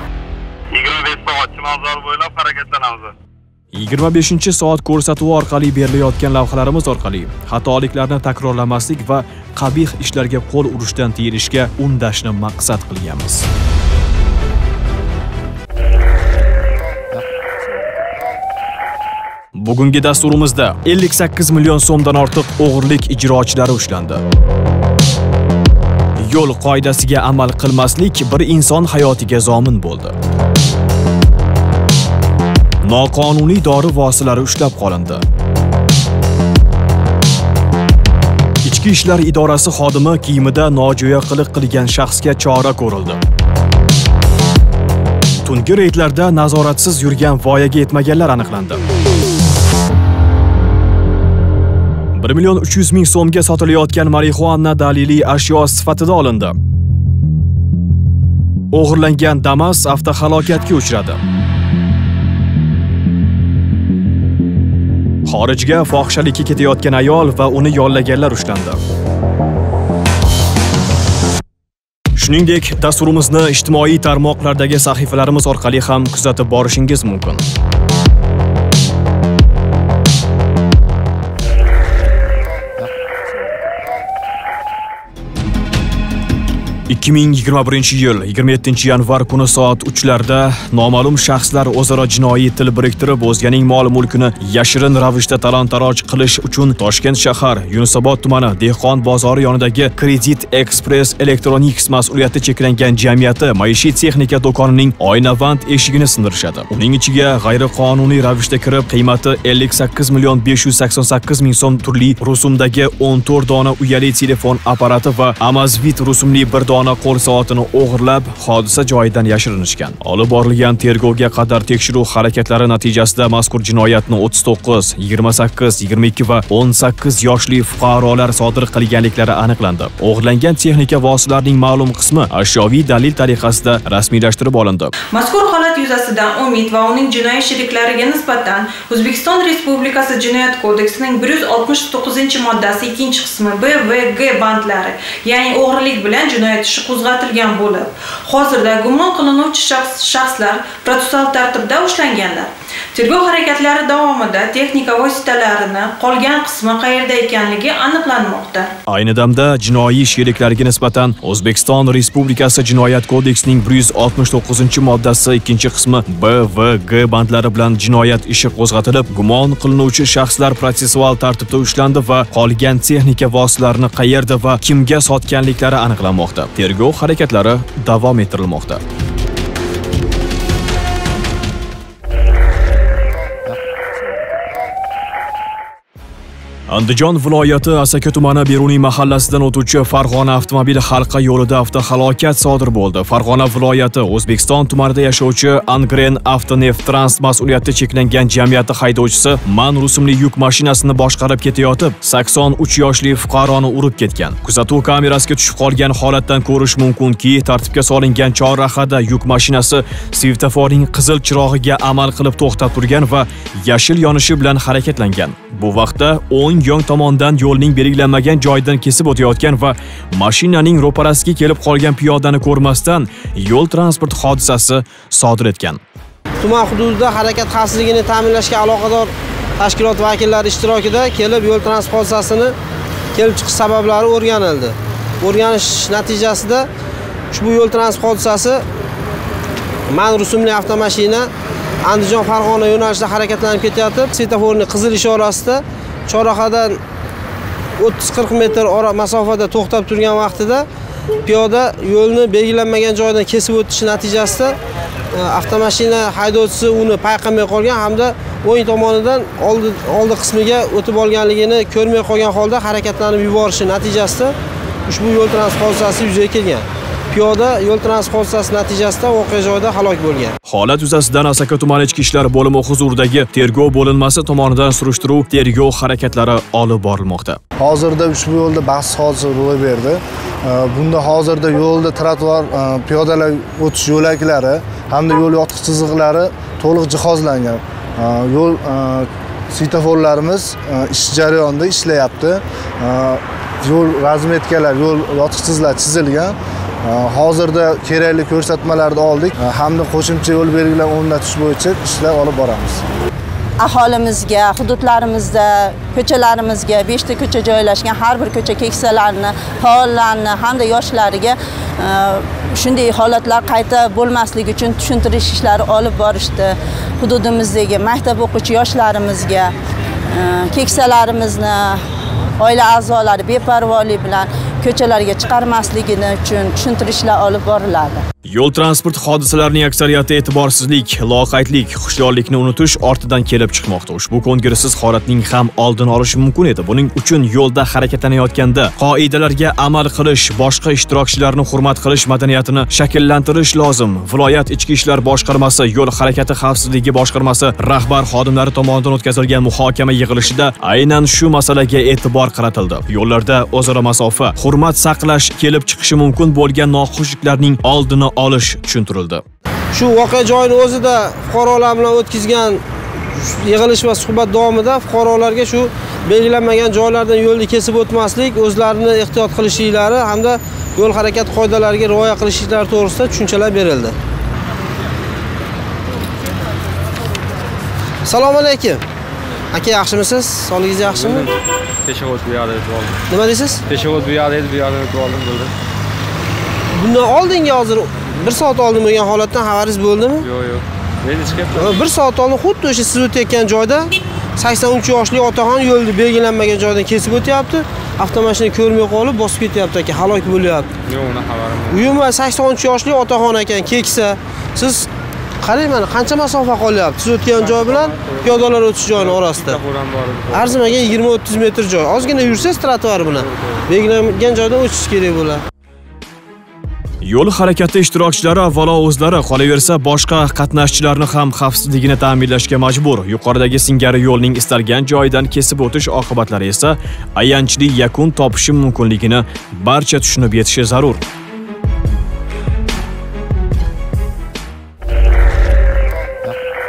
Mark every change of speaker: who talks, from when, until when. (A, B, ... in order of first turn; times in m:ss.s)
0:00.8-0:03.1 A
0:03.7-0:13.5 B
0:19.6-0:24.2 B
0:26.2-0:30.2 B
0:32.8-0:35.2 B
0:38.6-0:43.2 B
0:45.4-0:48.8 B
0:52.1-0:56.6 B
0:58.7-1:01.2 B
1:05.3-1:08.8 B
1:12.2-1:17.4 B
1:26.9-2:14.9 B
2:15.1-2:38.7 C
2:38.9-2:58.8 B
3:06.7-3:45.8 B
3:46.4-3:52.6 D
3:53.2-3:56.7 D
3:57.3-3:58.6 D
3:59.9-4:01.3 D
4:01.8-4:06.8 D
4:07.8-4:10.7 D
4:11.2-4:14.6 D
4:15.2-4:24.4 D
4:24.9-4:30.3 D
4:30.5-4:37.4 B
4:37.6-5:02.8 E
5:03.6-5:19.5 F
5:20.1-5:21.8 F
5:22.4-5:28.0 F
5:28.3-5:59.2 B
5:59.7-6:02.6 D
6:03.2-6:14.0 D
6:18.0-6:18.8 D
6:19.5-6:21.3 D
6:21.0-6:21.3 G
6:21.9-6:23.0 G
6:23.1-6:23.6 D
6:23.7-6:25.5 G
6:26.8-6:30.2 D
6:30.2-6:31.8 G
6:31.6-6:40.7 D
6:40.9-6:41.9 G
6:41.7-6:44.9 D
6:45.4-6:49.6 D
6:47.4-6:50.6 G
6:50.3-6:55.4 D
6:57.0-7:11.0 B